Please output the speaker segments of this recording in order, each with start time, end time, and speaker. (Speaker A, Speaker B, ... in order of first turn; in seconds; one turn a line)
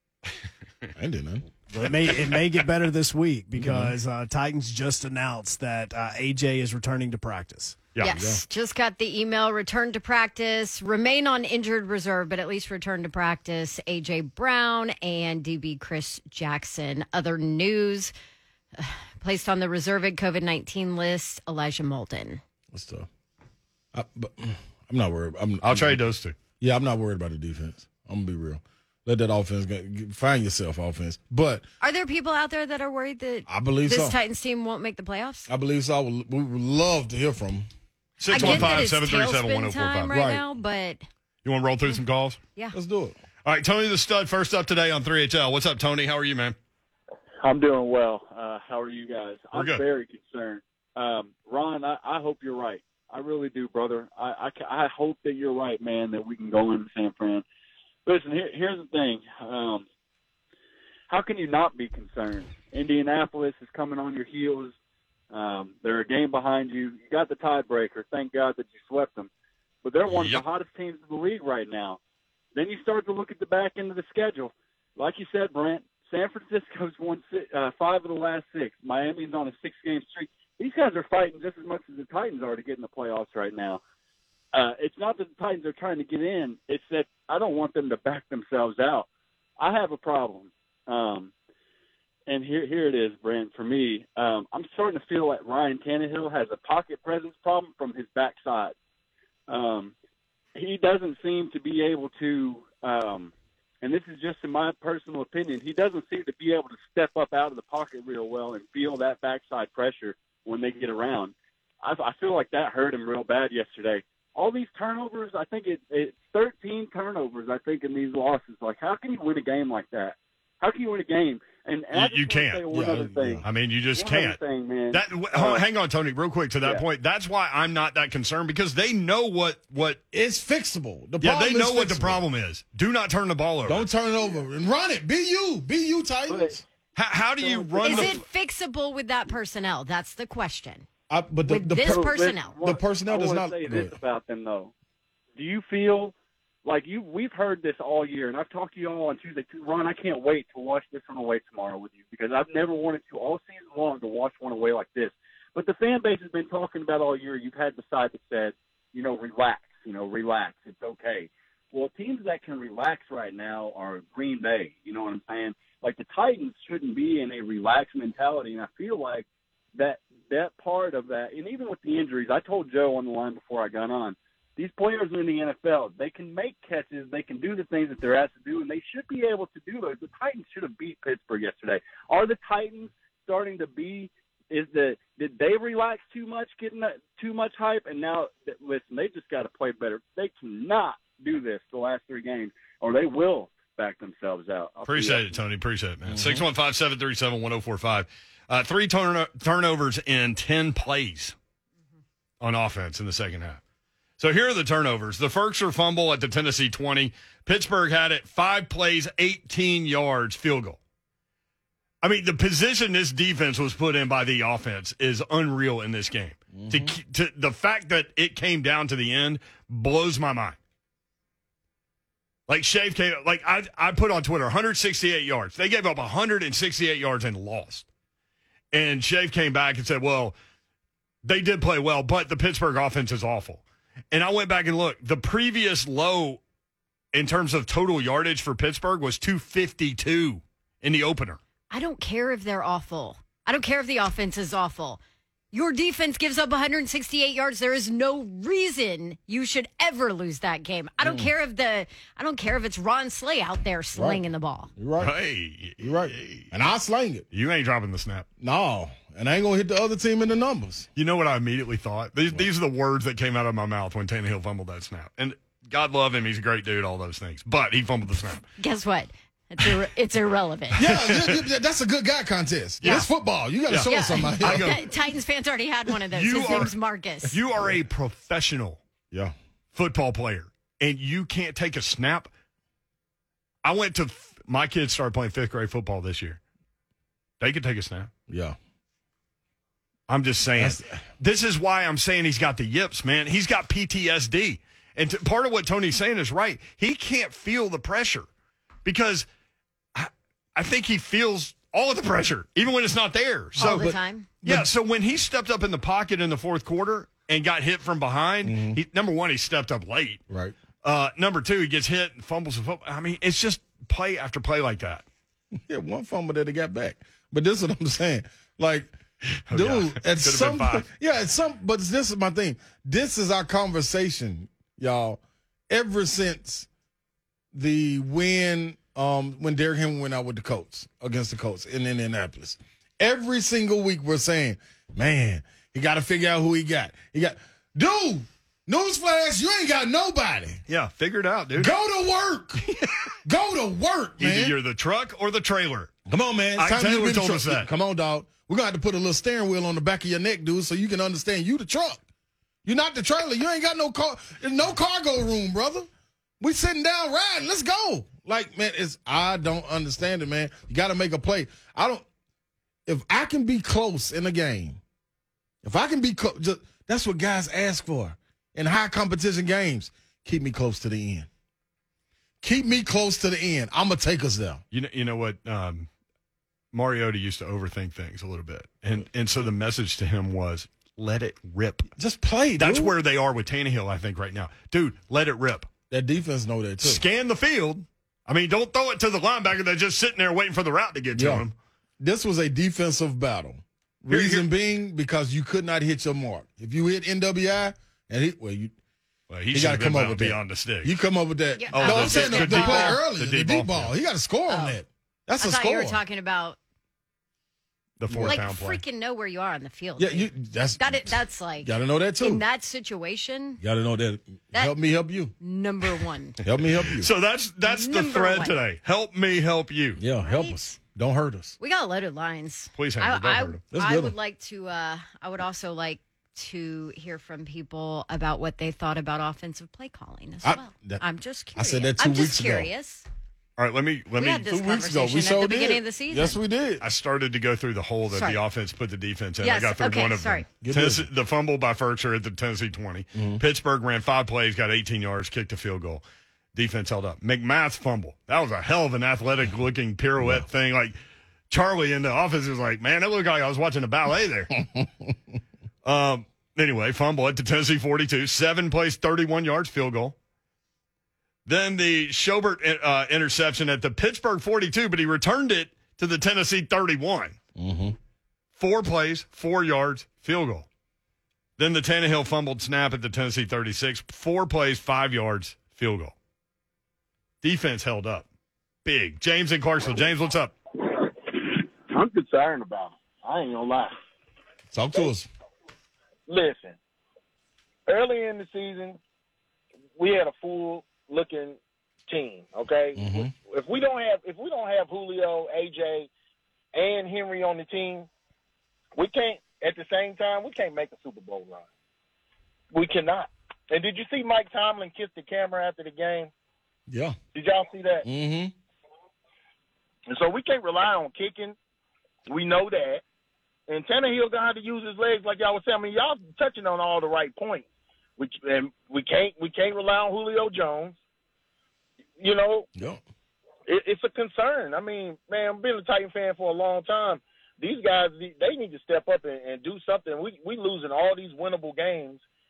Speaker A: 0.9-1.5
Speaker B: 1.7-7.8
Speaker A: 3.5-3.9
Speaker C: 8.0-18.1
Speaker A: 8.0-8.4
Speaker C: 18.8-22.4
Speaker A: 22.7-23.1
Speaker A: 23.9-26.0
Speaker D: 25.6-26.4
Speaker A: 26.6-31.6
Speaker C: 31.8-35.5
Speaker A: 33.5-34.2
Speaker A: 35.5-37.7
Speaker D: 38.2-40.1
Speaker A: 38.3-38.8
Speaker C: 38.3-41.0
Speaker A: 40.1-40.4
Speaker D: 41.4-42.4
Speaker A: 42.7-43.2
Speaker D: 43.5-46.6
Speaker E: 47.4-57.4
Speaker D: 49.5-49.8
Speaker E: 58.1-59.9
Speaker E: 61.1-64.7
Speaker E: 65.3-69.3
Speaker E: 69.8-72.0
Speaker D: 70.1-70.4
Speaker E: 72.5-83.8
Speaker E: 84.5-91.3
Speaker E: 92.3-98.8
Speaker E: 99.5-99.9
Speaker E: 100.5-123.5
Speaker D: 121.9-122.6
Speaker A: 122.7-123.5
Speaker D: 123.4-124.4
Speaker E: 124.0-125.6
Speaker D: 124.9-130.0
Speaker A: 130.1-132.2
Speaker D: 131.2-133.9
Speaker A: 133.7-136.6
Speaker E: 136.3-136.6
Speaker D: 136.9-138.2
Speaker E: 137.4-138.2
Speaker C: 137.8-140.9
Speaker A: 141.1-143.9
Speaker C: 141.5-142.6
Speaker E: 141.8-144.7
Speaker E: 145.4-195.4
Speaker D: 194.9-201.3
Speaker A: 196.1-196.5
Speaker D: 202.4-203.6
Speaker D: 204.2-210.8
Speaker D: 212.0-220.6
Speaker A: 216.5-217.0
Speaker D: 222.5-227.9
Speaker D: 228.7-230.3
Speaker D: 231.2-236.4
Speaker D: 237.1-241.4
Speaker C: 241.7-245.0
Speaker C: 245.5-254.7
Speaker A: 251.0-251.3
Speaker A: 253.9-254.2
Speaker A: 254.8-255.1
Speaker D: 255.0-256.5
Speaker A: 255.8-257.2
Speaker D: 257.3-258.3
Speaker A: 258.4-260.9
Speaker D: 261.0-268.4
Speaker C: 268.6-270.8
Speaker A: 270.7-274.8
Speaker D: 270.8-271.4
Speaker D: 272.8-273.1
Speaker D: 273.7-274.8
Speaker C: 273.9-277.4
Speaker D: 276.1-276.7
Speaker D: 277.3-278.8
Speaker A: 279.1-279.4
Speaker D: 279.7-282.3
Speaker D: 283.6-286.4
Speaker D: 287.4-288.1
Speaker A: 288.3-288.6
Speaker D: 290.1-298.3
Speaker A: 290.6-291.0
Speaker D: 298.9-299.3
Speaker D: 299.9-303.9
Speaker C: 303.6-304.3
Speaker A: 303.6-304.7
Speaker D: 304.4-310.2
Speaker A: 308.4-308.8
Speaker A: 310.3-310.6
Speaker D: 310.8-315.1
Speaker A: 315.6-318.9
Speaker D: 319.5-320.9
Speaker A: 319.5-326.7
Speaker A: 327.5-340.6
Speaker D: 340.7-341.7
Speaker A: 341.6-344.6
Speaker D: 344.2-345.9
Speaker A: 346.1-352.0
Speaker D: 346.6-347.7
Speaker A: 352.6-355.9
Speaker A: 356.4-362.1
Speaker A: 362.9-364.8
Speaker A: 365.6-371.3
Speaker A: 372.4-374.6
Speaker D: 374.7-375.9
Speaker D: 376.7-381.9
Speaker A: 382.0-382.9
Speaker D: 382.6-385.7
Speaker A: 385.9-387.0
Speaker D: 386.8-391.6
Speaker A: 391.1-391.4
Speaker A: 392.0-398.7
Speaker D: 394.1-394.5
Speaker D: 399.3-401.0
Speaker A: 399.5-406.0
Speaker C: 401.6-403.0
Speaker D: 401.7-403.9
Speaker C: 404.5-404.8
Speaker C: 405.4-406.6
Speaker D: 408.0-408.8
Speaker A: 408.1-408.4
Speaker C: 408.3-413.6
Speaker A: 410.0-412.4
Speaker A: 413.6-415.4
Speaker C: 415.4-416.4
Speaker A: 416.4-417.1
Speaker D: 416.5-420.0
Speaker C: 417.7-418.6
Speaker A: 420.0-421.6
Speaker C: 420.2-420.7
Speaker C: 421.6-433.1
Speaker D: 422.8-423.6
Speaker A: 423.7-424.1
Speaker A: 430.4-431.0
Speaker A: 431.6-432.7
Speaker D: 433.6-434.5
Speaker C: 434.2-436.4
Speaker A: 434.4-436.8
Speaker D: 436.8-446.0
Speaker C: 438.1-438.4
Speaker C: 439.4-440.5
Speaker A: 440.6-441.1
Speaker A: 443.1-443.4
Speaker D: 446.6-450.9
Speaker A: 450.2-450.5
Speaker D: 451.5-454.6
Speaker D: 455.9-460.1
Speaker D: 461.5-467.4
Speaker A: 467.6-468.0
Speaker D: 468.6-470.7
Speaker D: 471.6-476.1
Speaker D: 477.4-478.3
Speaker D: 478.9-480.5
Speaker F: 481.0-484.0
Speaker A: 484.7-485.3
Speaker F: 486.3-486.8
Speaker F: 487.9-489.0
Speaker F: 490.0-496.1
Speaker A: 493.0-493.3
Speaker F: 496.7-498.1
Speaker F: 499.0-501.7
Speaker F: 502.7-506.3
Speaker A: 506.9-507.2
Speaker F: 507.3-508.1
Speaker A: 508.0-508.5
Speaker F: 510.1-511.6
Speaker F: 512.3-513.0
Speaker F: 513.7-517.7
Speaker F: 518.2-521.0
Speaker F: 522.2-522.7
Speaker A: 522.8-523.0
Speaker F: 523.7-532.2